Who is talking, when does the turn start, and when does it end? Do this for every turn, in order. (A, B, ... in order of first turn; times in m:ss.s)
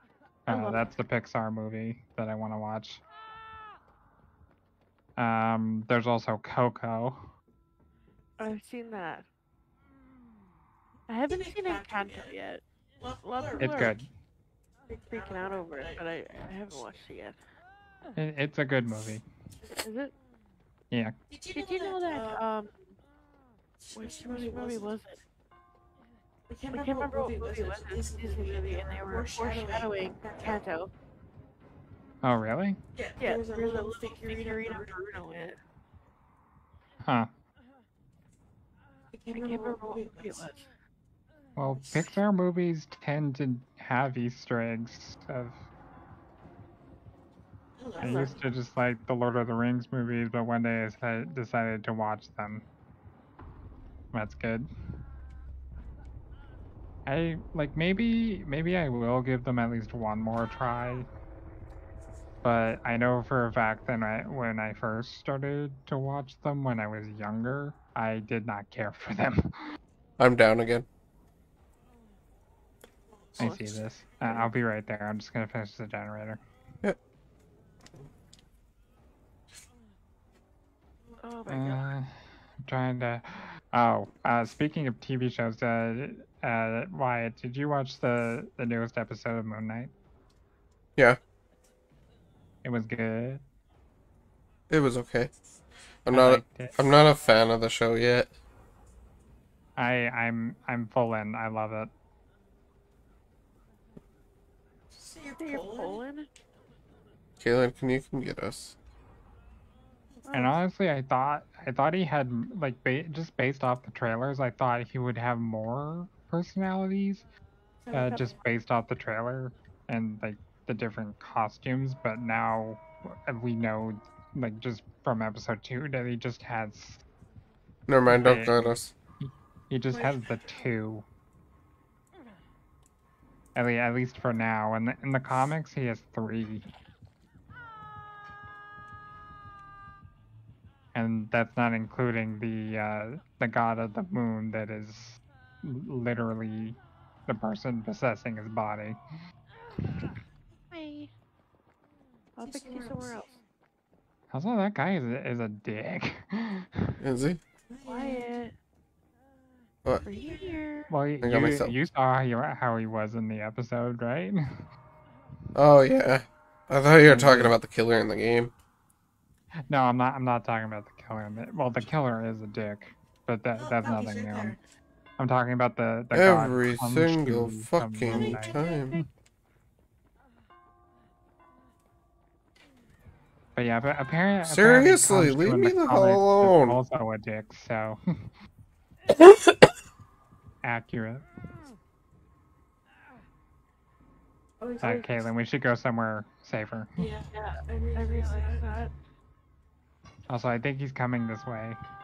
0:00.5-0:00.9 A
0:00.5-0:03.0 B
0:05.2-0:07.3 B
0:08.4-0:09.2 A
0:11.1-0:12.6 A
0:11.3-0:12.3 C
0:13.0-0:14.0 C
0:13.2-0:14.0 A
0:13.6-0:14.1 B
0:14.9-0:16.8 C
0:15.1-0:17.4 A
0:18.2-0:19.2 B
0:19.7-0:20.1 A
0:21.3-0:22.4 C
0:21.5-0:22.9 A
0:23.8-0:25.0 C
0:23.9-0:25.2 A
0:26.5-0:30.6 C
0:26.7-0:30.9 A
0:32.2-0:32.8 B
0:32.9-0:35.4 C
0:33.2-0:35.6 A
0:37.0-0:37.3 B
0:39.1-0:40.4 C
0:39.4-0:40.7 A
0:41.6-0:45.6 B
0:47.8-0:48.4 C
0:48.0-0:52.6 B
0:48.0-0:48.3 A
0:54.1-0:54.7 B
0:57.0-1:01.1 B
1:02.4-1:09.6 B
1:10.2-1:10.8 D
1:13.1-1:13.4 C
1:13.4-1:13.8 A
1:13.4-1:16.4 B
1:21.2-1:21.9 A
1:21.5-1:29.9 B
1:32.6-1:33.4 B
1:34.7-1:35.3 D
1:36.0-1:38.3 D
1:36.1-1:36.8 B
1:39.8-1:41.9 B
1:44.9-1:46.0 C
1:45.4-1:46.3 A
1:47.4-1:48.8 D
1:50.3-1:50.6 A
1:50.3-1:57.2 B
1:57.8-1:58.4 C
1:57.9-2:07.0 B
2:07.9-2:08.9 D
2:08.1-2:11.0 B
2:09.9-2:10.6 C
2:13.5-2:16.7 B
2:20.9-2:29.0 B
2:30.7-2:31.1 A
2:32.4-2:33.4 A
2:32.4-2:33.3 C
2:34.3-2:37.0 B
2:37.0-2:37.4 D
2:37.7-2:38.4 C
2:37.8-2:38.5 A
2:40.0-2:40.9 A
2:40.0-2:40.6 C
2:40.9-2:44.6 B
2:41.2-2:41.7 D
2:45.5-2:48.5 D
2:47.0-2:47.5 B
2:49.7-2:54.6 B
2:53.6-2:54.6 C
2:55.2-2:59.0 B
2:56.1-2:59.0 D
2:58.0-2:59.0 C
3:03.5-3:08.3 B
3:04.4-3:06.8 D
3:09.2-3:09.5 D
3:10.6-3:11.2 B
3:14.6-3:15.0 C
3:14.8-3:17.1 B
3:17.0-3:18.7 C
3:17.3-3:18.9 A
3:20.3-3:21.8 B